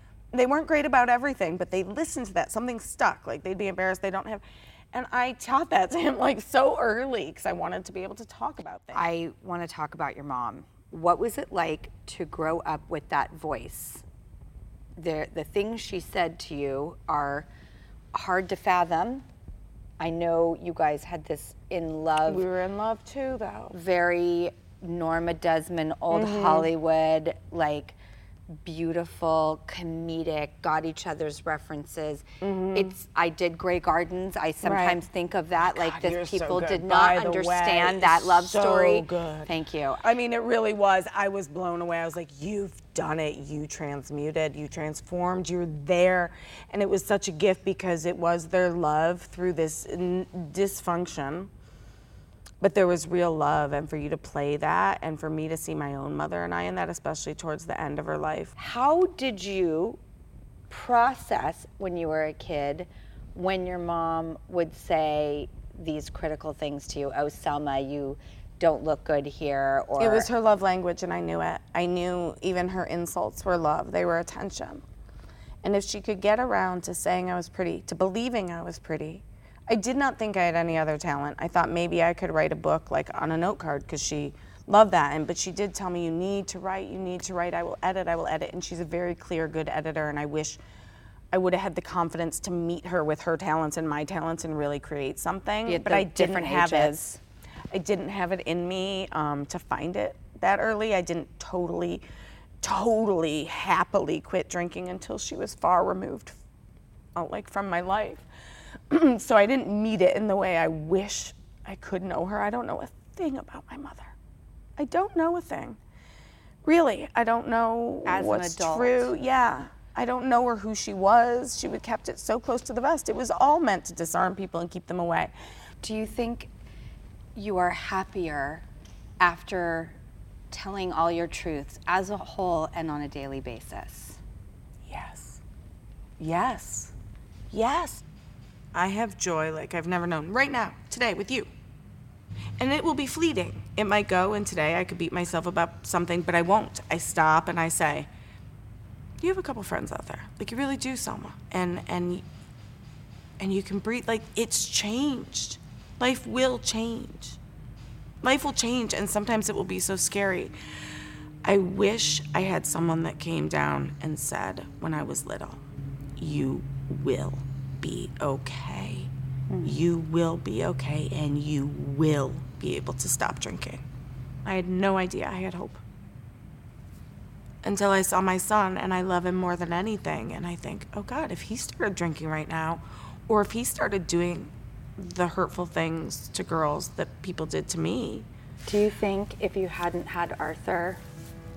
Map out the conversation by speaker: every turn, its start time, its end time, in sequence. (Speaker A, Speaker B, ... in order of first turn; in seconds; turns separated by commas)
Speaker A: 0.3-9.1, Speaker B: 8.9-14.0, Speaker B: 15.0-17.5, Speaker B: 18.1-19.2, Speaker B: 20.0-22.4, Speaker A: 22.3-23.8, Speaker B: 23.7-28.0, Speaker A: 26.1-26.7, Speaker B: 28.6-40.0, Speaker A: 32.4-32.9, Speaker A: 34.6-35.0, Speaker A: 35.6-39.5, Speaker A: 40.0-51.5, Speaker A: 52.6-58.5, Speaker B: 58.6-60.0, Speaker B: 60.7-70.3, Speaker A: 70.0-74.8, Speaker A: 75.6-90.6, Speaker A: 91.3-97.0, Speaker B: 95.7-97.2, Speaker A: 97.7-102.0, Speaker A: 102.6-106.4, Speaker A: 107.2-108.2, Speaker A: 108.9-114.1, Speaker A: 114.8-115.8, Speaker A: 116.6-125.3, Speaker B: 118.1-119.1, Speaker B: 125.8-126.5, Speaker B: 127.3-128.7, Speaker B: 129.2-130.0, Speaker B: 130.5-134.2, Speaker A: 134.9-135.4, Speaker A: 136.2-136.9, Speaker A: 137.5-138.0, Speaker A: 138.7-141.5, Speaker A: 142.6-148.1, Speaker A: 149.2-152.2, Speaker A: 153.4-157.4, Speaker A: 158.2-160.5, Speaker A: 161.4-165.6, Speaker A: 166.2-169.1, Speaker A: 169.6-173.8, Speaker A: 174.4-175.8, Speaker A: 177.6-188.3, Speaker B: 188.7-191.0